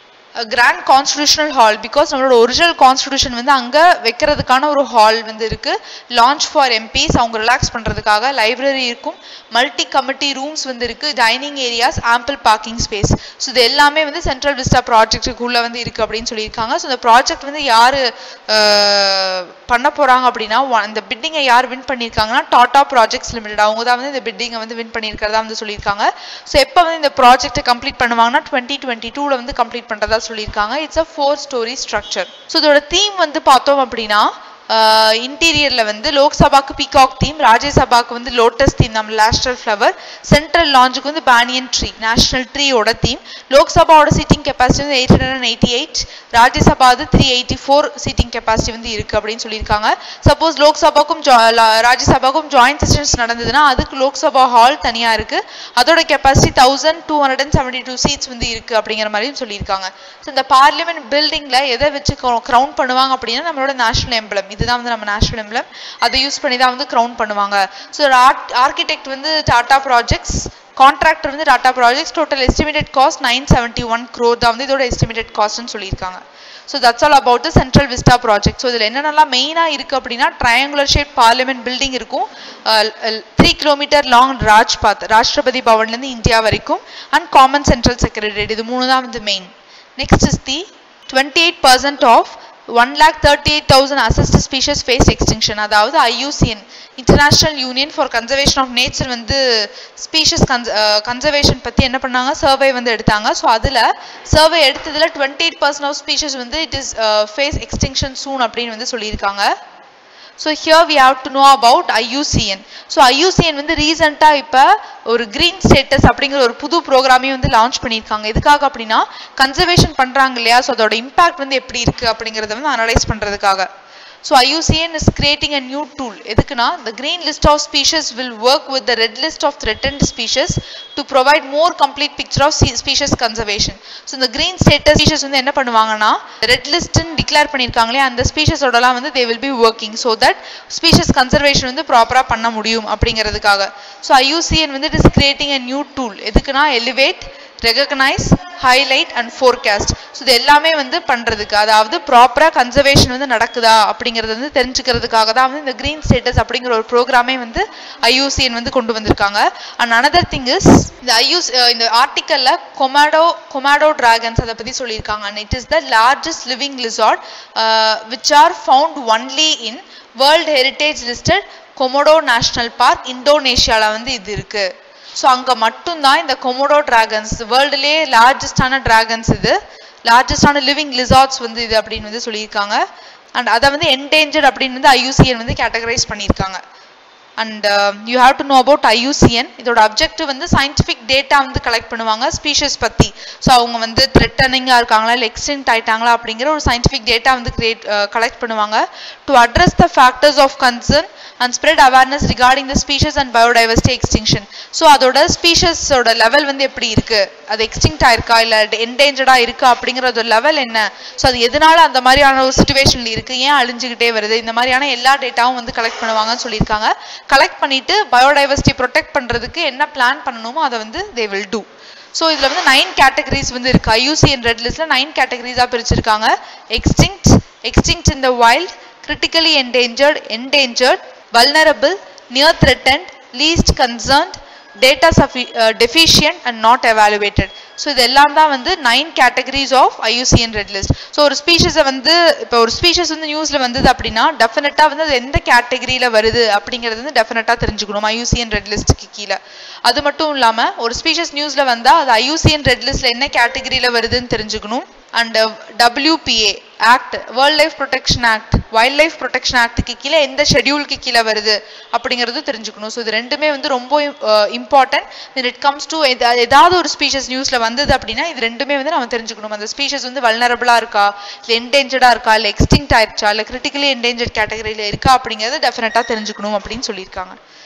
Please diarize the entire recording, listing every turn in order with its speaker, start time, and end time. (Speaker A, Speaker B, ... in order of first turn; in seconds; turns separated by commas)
Speaker A: 0.4-109.5, Speaker A: 110.4-123.7, Speaker A: 124.2-182.8, Speaker A: 183.3-186.6, Speaker A: 187.4-277.4